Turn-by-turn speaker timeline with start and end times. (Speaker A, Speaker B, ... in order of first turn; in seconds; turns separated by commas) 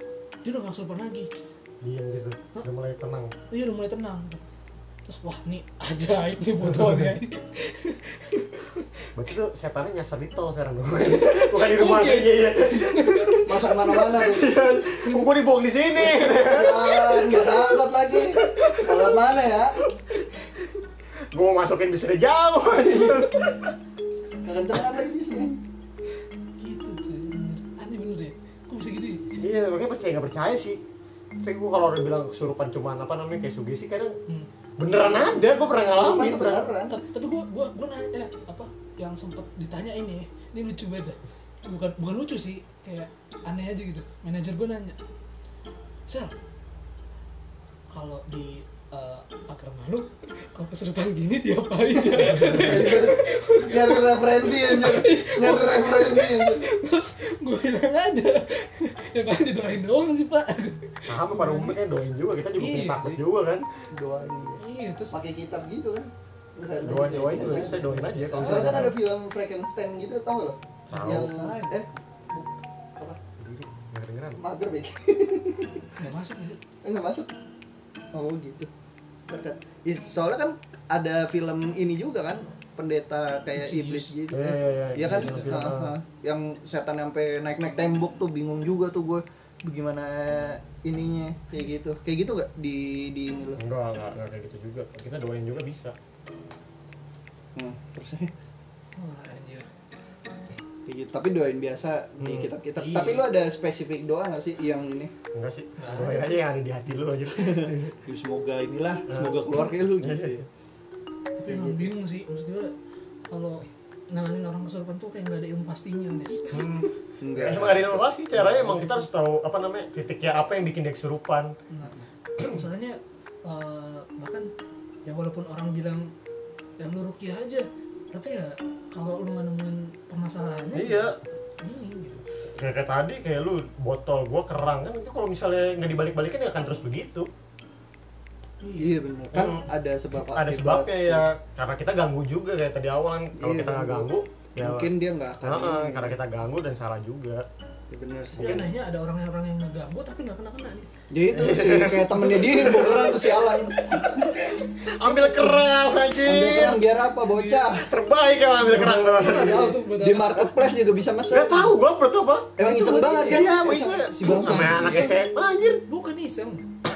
Speaker A: 0.4-1.3, Speaker B: 1.8-3.3, Speaker A: 3.5-4.4, Speaker A: 5.1-9.0, Speaker B: 6.6-7.1, Speaker B: 9.1-19.3, Speaker A: 11.1-14.2, Speaker C: 13.4-14.5, Speaker A: 16.0-16.4, Speaker C: 16.1-19.8, Speaker B: 19.8-20.6, Speaker B: 21.3-23.7, Speaker C: 24.4-25.6, Speaker A: 26.6-29.2, Speaker B: 29.4-30.8, Speaker B: 31.4-34.1, Speaker B: 34.8-36.6, Speaker C: 35.9-37.0, Speaker A: 36.9-45.0, Speaker A: 46.1-46.3, Speaker A: 47.9-61.8, Speaker C: 52.1-56.7, Speaker B: 52.2-53.1, Speaker B: 61.1-63.7, Speaker A: 62.5-63.2, Speaker C: 63.9-67.8, Speaker A: 64.6-65.2, Speaker B: 66.8-69.0, Speaker A: 67.0-68.9, Speaker C: 68.4-73.2, Speaker B: 70.9-71.5, Speaker A: 70.9-71.7, Speaker B: 73.4-74.4, Speaker C: 74.4-76.0, Speaker A: 76.0-76.6, Speaker C: 76.8-77.3, Speaker C: 78.1-78.7, Speaker C: 79.3-93.6, Speaker A: 83.5-84.1, Speaker B: 84.3-85.9, Speaker A: 85.0-85.7, Speaker B: 93.6-95.9, Speaker C: 97.5-98.3, Speaker A: 99.0-99.7, Speaker C: 100.8-105.1, Speaker B: 102.2-102.5, Speaker A: 102.8-103.2, Speaker B: 105.3-108.0, Speaker A: 105.8-106.4, Speaker C: 107.4-110.5, Speaker B: 109.1-110.5, Speaker A: 111.4-112.7, Speaker C: 111.5-111.9, Speaker A: 113.3-116.8, Speaker B: 116.5-121.5, Speaker C: 117.2-118.0, Speaker A: 118.4-119.0, Speaker A: 121.7-124.5, Speaker A: 125.0-126.1, Speaker A: 126.8-132.3, Speaker B: 130.7-131.2, Speaker B: 132.5-137.3, Speaker A: 138.6-139.0, Speaker C: 138.8-141.2, Speaker B: 139.3-139.6, Speaker B: 140.3-144.9, Speaker C: 143.4-146.2, Speaker B: 145.4-147.4, Speaker C: 147.9-148.6, Speaker A: 148.4-150.9, Speaker B: 148.4-148.7, Speaker C: 151.1-154.3, Speaker B: 151.3-154.1, Speaker A: 153.9-155.7, Speaker B: 154.7-156.8, Speaker C: 156.2-157.9, Speaker A: 157.2-157.7, Speaker B: 157.7-159.8, Speaker A: 158.6-160.7, Speaker C: 158.7-161.7, Speaker B: 161.3-165.8, Speaker C: 162.6-165.1, Speaker A: 164.2-165.2, Speaker A: 165.9-166.7